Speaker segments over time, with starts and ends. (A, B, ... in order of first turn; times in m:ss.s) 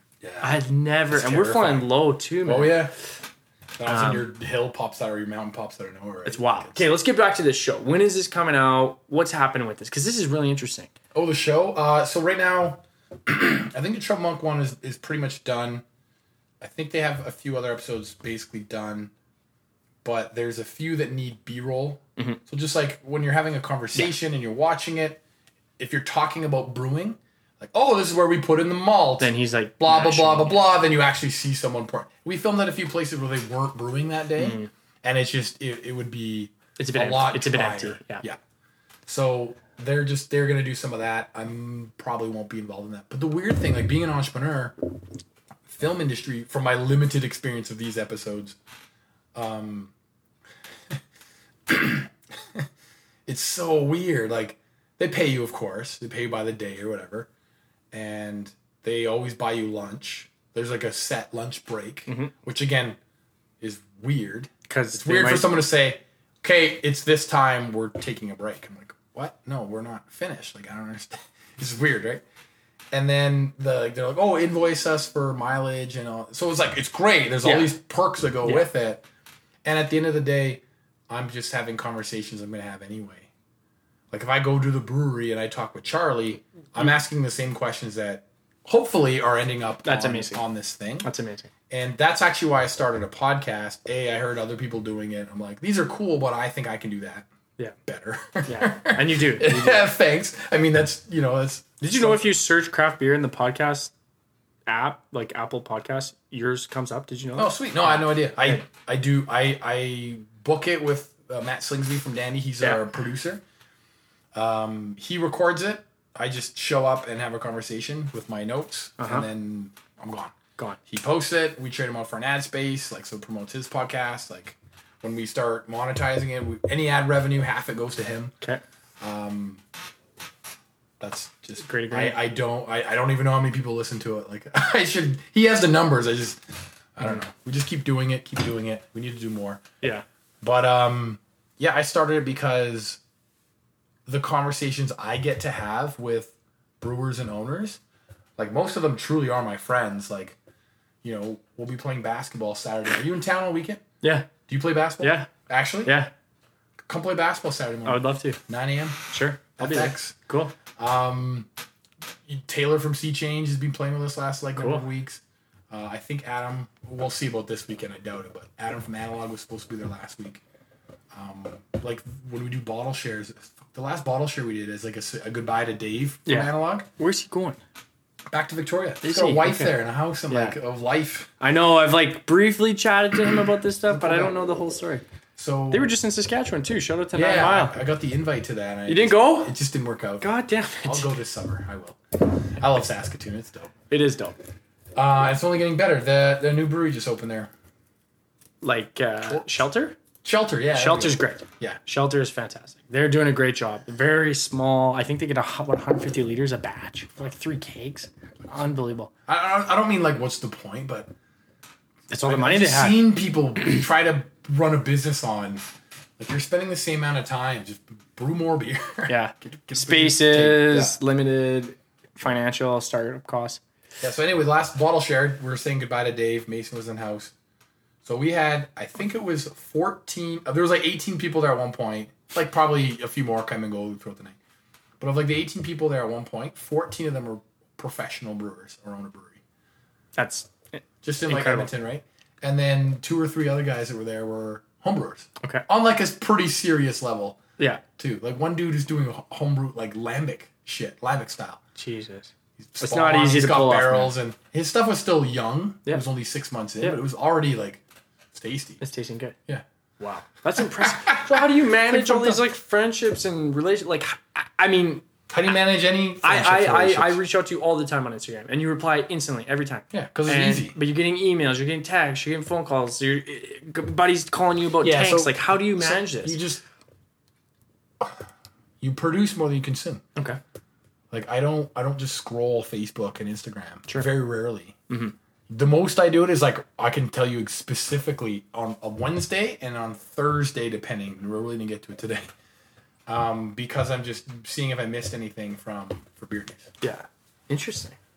0:00.2-0:01.9 A
0:00.4-0:02.8 B
0:02.4-0:03.0 A
0:03.8-0:06.9 A
0:03.9-0:04.2 B
0:06.2-0:10.9 B
0:11.1-0:15.8 A
0:16.6-0:19.1 A
0:20.0-0:25.2 A
0:25.8-0:38.4 A
0:29.2-0:30.6 B
0:34.4-0:34.7 B
0:36.8-0:38.2 B
0:39.1-0:44.8 A
0:45.7-0:48.6 A
0:49.4-0:49.9 A
0:51.7-0:52.7 A
0:53.3-0:57.3 A
0:57.9-1:03.0 A
1:02.1-1:02.3 B
1:03.6-1:12.2 A
1:04.7-1:05.5 B
1:12.9-1:19.0 A
1:17.4-1:17.7 B
1:18.4-1:18.7 B
1:19.6-1:23.3 A
1:24.1-1:31.1 A
1:29.8-1:30.4 B
1:31.0-1:31.5 B
1:31.7-1:37.3 A
1:37.9-1:42.3 A
1:38.5-1:39.9 B
1:41.8-1:43.9 B
1:44.7-1:48.6 B
1:47.4-1:53.4 A
1:54.3-2:00.3 A
1:59.0-1:59.3 B
2:00.9-2:08.4 A
2:09.0-2:09.6 A
2:11.0-2:16.4 A
2:11.6-2:12.2 B
2:17.0-2:19.7 A
2:20.4-2:23.0 A
2:24.1-2:27.8 A
2:28.4-2:30.4 A
2:31.0-2:33.8 A
2:34.0-2:34.3 B
2:34.5-2:36.0 A
2:35.0-2:35.3 B
2:35.8-2:36.1 B
2:36.9-2:39.0 A
2:37.8-2:38.4 B
2:39.1-2:40.6 B
2:39.6-2:40.1 A
2:40.7-2:41.5 A
2:42.3-2:50.4 A
2:44.6-2:44.8 B
2:51.1-2:56.9 A
2:56.3-2:57.6 B
2:58.3-3:01.3 A
2:59.0-2:59.8 B
3:00.3-3:00.6 B
3:01.4-3:05.0 B
3:03.9-3:04.3 A
3:05.4-3:06.0 A
3:05.7-3:07.8 B
3:07.1-3:10.3 A
3:08.9-3:09.5 B
3:10.2-3:11.1 B
3:10.8-3:13.7 A
3:13.9-3:14.4 B
3:15.0-3:17.5 A
3:18.6-3:20.0 B
3:19.3-3:19.5 A
3:20.2-3:21.8 A
3:20.7-3:29.1 B
3:29.3-3:31.1 A
3:32.1-3:33.0 B
3:32.2-3:35.6 A
3:36.2-3:41.0 A
3:39.1-3:43.6 B
3:44.0-3:47.3 A
3:48.0-3:54.4 A
3:55.0-3:59.4 A
4:00.2-4:01.7 B
4:01.0-4:07.4 A
4:07.6-4:07.8 B
4:08.0-4:11.6 A
4:11.8-4:14.1 B
4:12.6-4:17.8 A
4:18.3-4:18.8 A
4:18.8-4:19.4 B
4:20.0-4:25.1 B
4:20.6-4:22.4 A
4:25.3-4:27.2 A
4:26.2-4:36.4 B
4:29.9-4:30.8 A
4:34.8-4:36.6 A
4:38.8-4:40.0 A
4:41.1-4:44.8 A
4:45.5-4:52.3 A
4:53.1-4:56.7 A
4:56.8-4:58.0 B